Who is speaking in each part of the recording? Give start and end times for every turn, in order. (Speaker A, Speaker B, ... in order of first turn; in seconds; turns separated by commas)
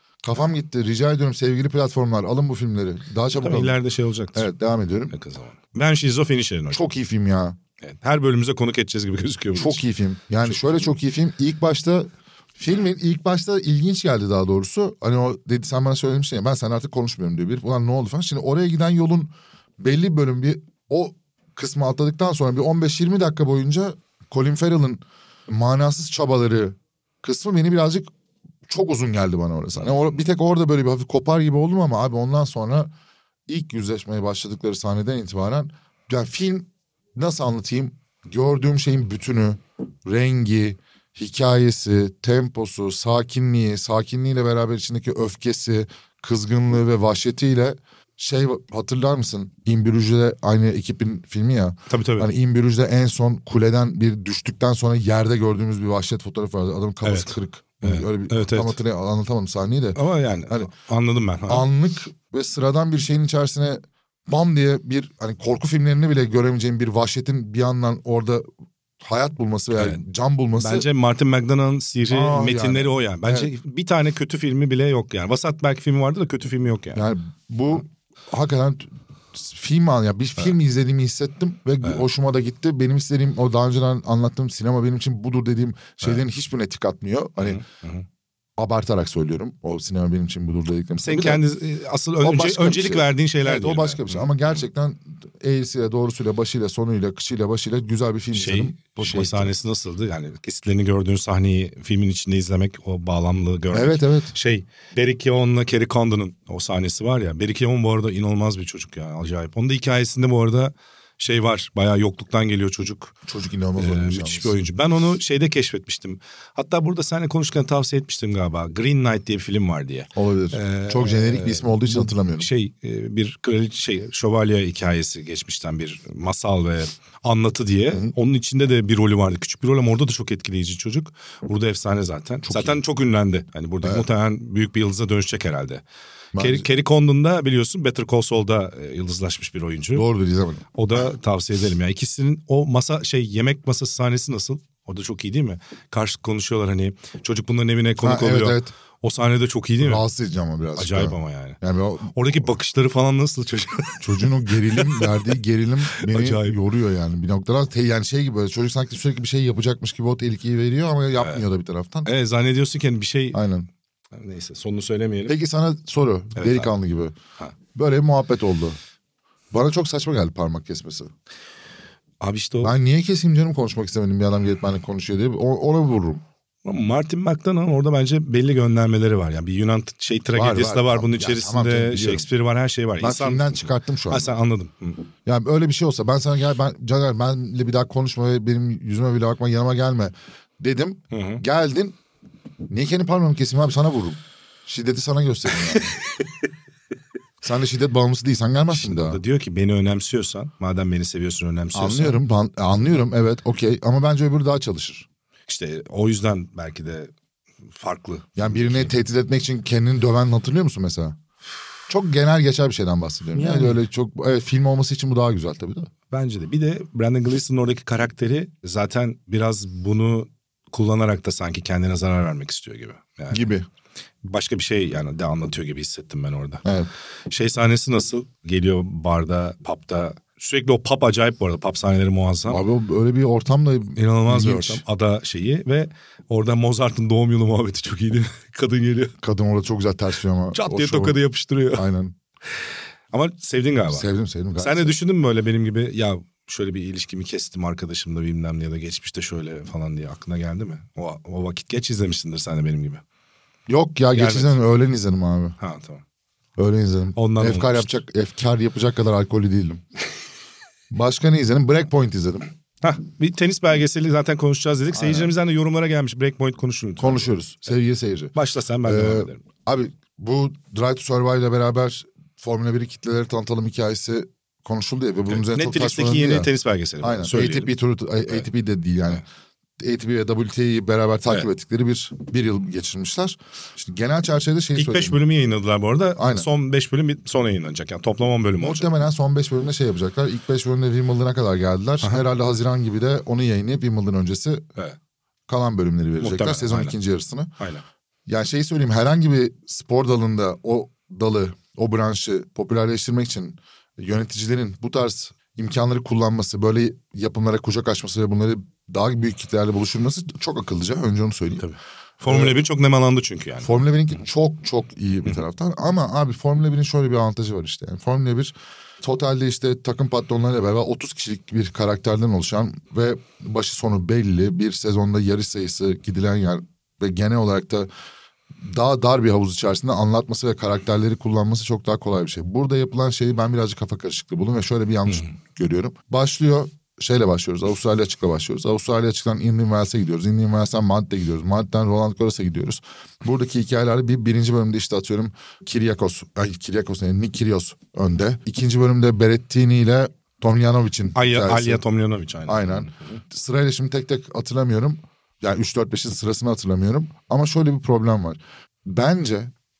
Speaker A: 0.2-3.8, Speaker B: 3.3-4.5, Speaker A: 4.3-5.1, Speaker B: 5.1-6.9, Speaker A: 6.7-7.6, Speaker B: 7.8-9.8, Speaker A: 9.5-28.1, Speaker B: 10.4-10.8, Speaker A: 28.6-32.9, Speaker A: 33.5-60.0, Speaker B: 51.9-52.3, Speaker B: 57.0-58.8, Speaker B: 59.9-61.7, Speaker A: 61.5-68.5, Speaker A: 69.0-70.9, Speaker B: 69.7-70.0, Speaker B: 70.6-77.0, Speaker A: 72.1-73.5, Speaker A: 76.9-87.6, Speaker B: 87.4-88.0, Speaker A: 88.6-91.4, Speaker B: 91.0-94.3, Speaker A: 92.2-99.5, Speaker B: 98.3-113.1, Speaker A: 103.7-104.3, Speaker A: 113.2-114.6, Speaker B: 113.8-135.8, Speaker A: 120.1-122.5, Speaker A: 132.4-132.8, Speaker A: 136.3-136.6, Speaker B: 136.4-140.1, Speaker A: 139.9-140.6, Speaker B: 140.7-150.0, Speaker A: 148.0-148.7, Speaker A: 149.8-152.5, Speaker B: 150.8-155.1, Speaker A: 154.0-162.1, Speaker B: 155.9-156.6, Speaker B: 162.0-163.4, Speaker A: 163.3-163.7, Speaker B: 164.1-165.3, Speaker A: 165.3-167.1, Speaker B: 166.3-166.7, Speaker A: 167.7-168.8, Speaker A: 169.5-171.1, Speaker B: 172.2-172.7, Speaker A: 172.6-176.2, Speaker B: 176.6-185.1, Speaker A: 180.3-182.3, Speaker A: 183.0-184.3, Speaker A: 185.2-192.0, Speaker B: 191.1-191.4, Speaker A: 192.7-195.9, Speaker B: 195.7-196.2, Speaker A: 197.4-199.2, Speaker B: 198.7-202.2, Speaker A: 201.7-205.1, Speaker B: 205.5-207.1, Speaker B: 207.7-208.9, Speaker A: 208.4-211.2, Speaker A: 211.9-215.9, Speaker B: 213.4-213.8, Speaker B: 216.1-223.5, Speaker A: 223.3-223.6, Speaker B: 224.2-226.7, Speaker A: 226.6-226.9, Speaker B: 227.3-232.6, Speaker A: 232.5-234.8, Speaker B: 233.9-239.1, Speaker A: 239.2-241.2, Speaker B: 240.5-241.8, Speaker A: 241.7-242.2, Speaker B: 243.1-244.1, Speaker A: 243.9-245.0, Speaker B: 244.6-253.0, Speaker A: 253.7-255.6, Speaker B: 254.1-254.6, Speaker B: 255.6-256.0, Speaker A: 256.6-259.8, Speaker B: 257.1-257.9, Speaker A: 260.9-262.5, Speaker B: 262.8-267.4, Speaker A: 264.9-265.3, Speaker A: 267.0-276.5, Speaker B: 268.3-269.4, Speaker B: 275.3-277.7, Speaker A: 277.0-279.2, Speaker A: 279.8-285.2, Speaker B: 284.7-288.9, Speaker A: 286.1-286.5, Speaker A: 288.6-294.7, Speaker A: 295.5-297.5, Speaker B: 296.2-296.9, Speaker B: 297.6-297.8, Speaker A: 298.3-311.7, Speaker B: 311.6-313.8, Speaker A: 312.2-312.6, Speaker A: 313.6-327.9, Speaker A: 328.6-351.8, Speaker B: 335.1-335.3, Speaker B: 351.1-353.2, Speaker A: 352.5-359.5